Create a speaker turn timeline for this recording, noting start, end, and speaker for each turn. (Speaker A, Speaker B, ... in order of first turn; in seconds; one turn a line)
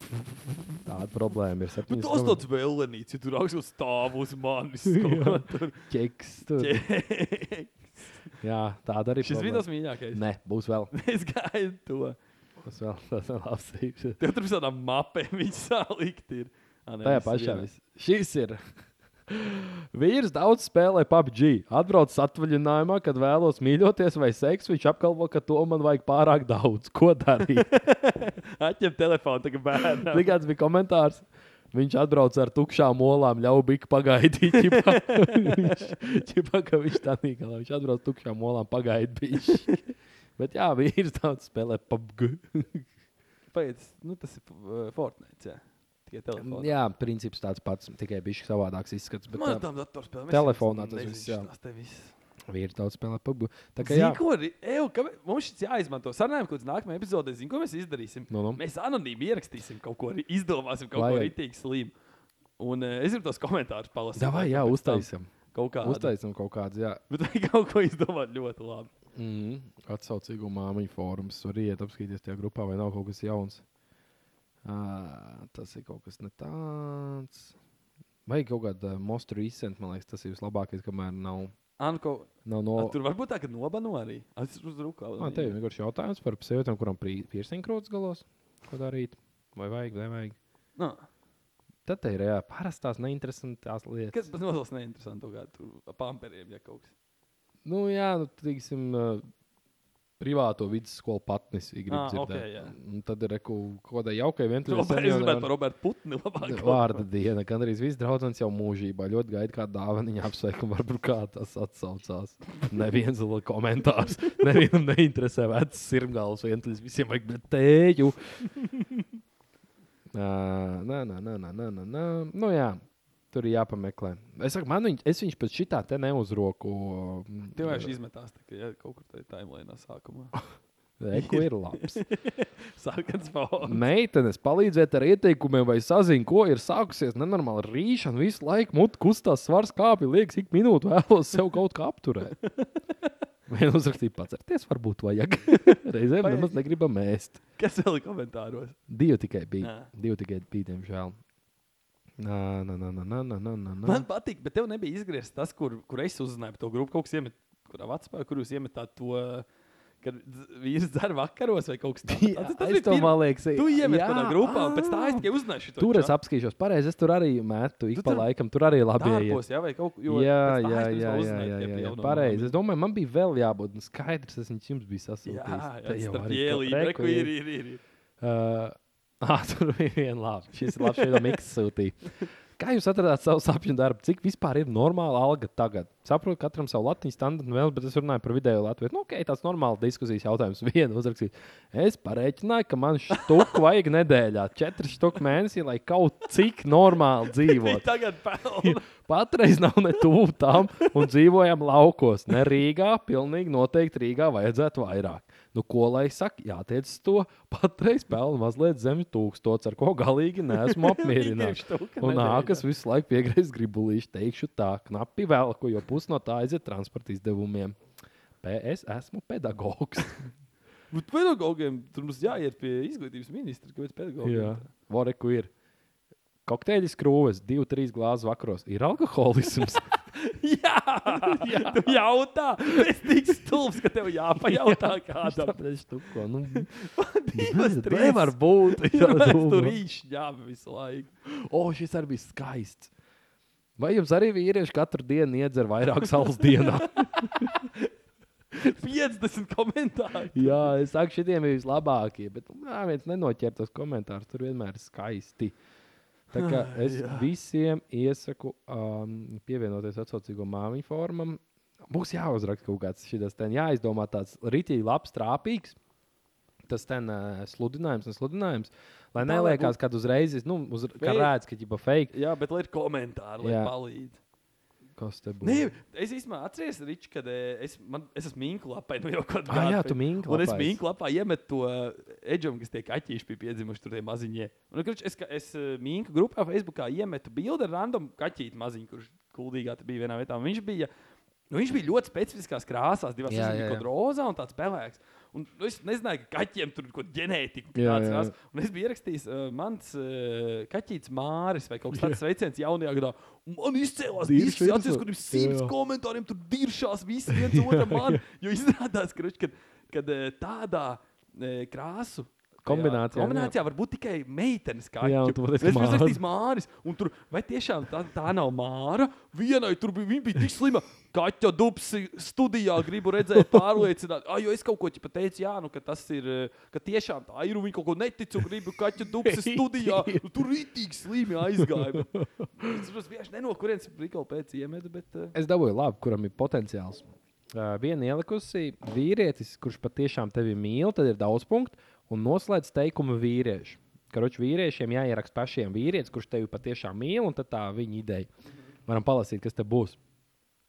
Speaker A: 0.8-2.4
Speaker B: 1.9-5.8
Speaker A: 4.9-6.8
Speaker B: 6.6-8.2
Speaker A: 8.4-10.9
Speaker B: 9.2-10.2
Speaker B: 10.9-12.2
Speaker A: 12.6-14.2
Speaker B: 14.2-17.7
Speaker A: 17.0-18.6
Speaker A: 19.3-27.7
Speaker B: 27.6-30.3
Speaker A: 30.0-39.8
Speaker B: 34.5-36.0
Speaker A: 40.4-42.9
Speaker B: 43.5-46.7
Speaker A: 46.4-49.6
Speaker B: 49.3-52.1
Speaker A: 50.3-51.5
Speaker A: 52.5-54.2
Speaker B: 53.8-61.9
Speaker A: 58.3-58.6
Speaker A: 60.9-61.3
Speaker B: 62.6-66.1
Speaker A: 64.2-65.3
Speaker A: 65.8-67.0
Speaker B: 67.1-68.9
Speaker A: 69.2-73.6
Speaker A: 74.6-77.5
Speaker A: 78.2-81.5
Speaker B: 81.8-85.5
Speaker A: 82.4-83.0
Speaker A: 85.2-90.4
Speaker B: 90.8-91.1
Speaker A: 91.8-94.3
Speaker B: 94.1-96.9
Speaker A: 97.6-99.3
Speaker A: 100.2-105.5
Speaker B: 101.9-102.7
Speaker B: 104.7-107.0
Speaker A: 106.4-118.2
Speaker A: 120.1-122.8
Speaker A: 123.3-127.9
Speaker B: 127.5-130.4
Speaker A: 131.0-132.0
Speaker B: 131.1-133.8
Speaker A: 133.6-142.3
Speaker A: 143.5-147.4
Speaker B: 146.2-146.5
Speaker B: 147.6-148.8
Speaker A: 148.9-151.2
Speaker B: 149.6-149.9
Speaker A: 152.2-154.1
Speaker B: 153.8-159.4
Speaker B: 160.0-166.1
Speaker A: 162.1-165.2
Speaker A: 165.8-169.4
Speaker B: 167.9-168.2
Speaker B: 168.9-172.6
Speaker A: 170.1-177.3
Speaker B: 175.2-177.8
Speaker A: 178.2-197.9
Speaker B: 180.7-181.3
Speaker B: 193.1-193.4
Speaker B: 197.3-198.8
Speaker A: 198.6-217.8
Speaker B: 210.6-212.6
Speaker A: 218.4-220.2
Speaker B: 220.9-224.7
Speaker A: 224.2-225.5
Speaker A: 226.4-229.9
Speaker B: 229.9-235.6
Speaker A: 231.1-232.0
Speaker A: 232.7-233.6
Speaker A: 234.3-236.7
Speaker B: 236.5-241.1
Speaker A: 237.3-239.8
Speaker A: 241.2-242.9
Speaker A: 243.8-247.5
Speaker B: 246.4-247.9
Speaker B: 248.6-250.7
Speaker A: 250.3-255.6
Speaker A: 256.3-265.8
Speaker B: 256.3-257.3
Speaker A: 266.7-272.1
Speaker B: 269.2-269.8
Speaker B: 271.0-271.3
Speaker B: 272.1-274.2
Speaker A: 273.4-273.7
Speaker A: 274.9-275.7
Speaker B: 275.4-290.9
Speaker A: 279.5-280.8
Speaker B: 291.5-335.3
Speaker A: 293.3-293.9
Speaker A: 297.7-298.3
Speaker A: 301.9-302.2
Speaker A: 304.2-305.7
Speaker A: 307.3-308.2
Speaker A: 312.6-313.5
Speaker A: 315.0-316.2
Speaker A: 323.3-323.6
Speaker A: 329.1-330.2
Speaker A: 331.6-332.7
Speaker A: 335.3-348.3
Speaker A: 348.9-350.0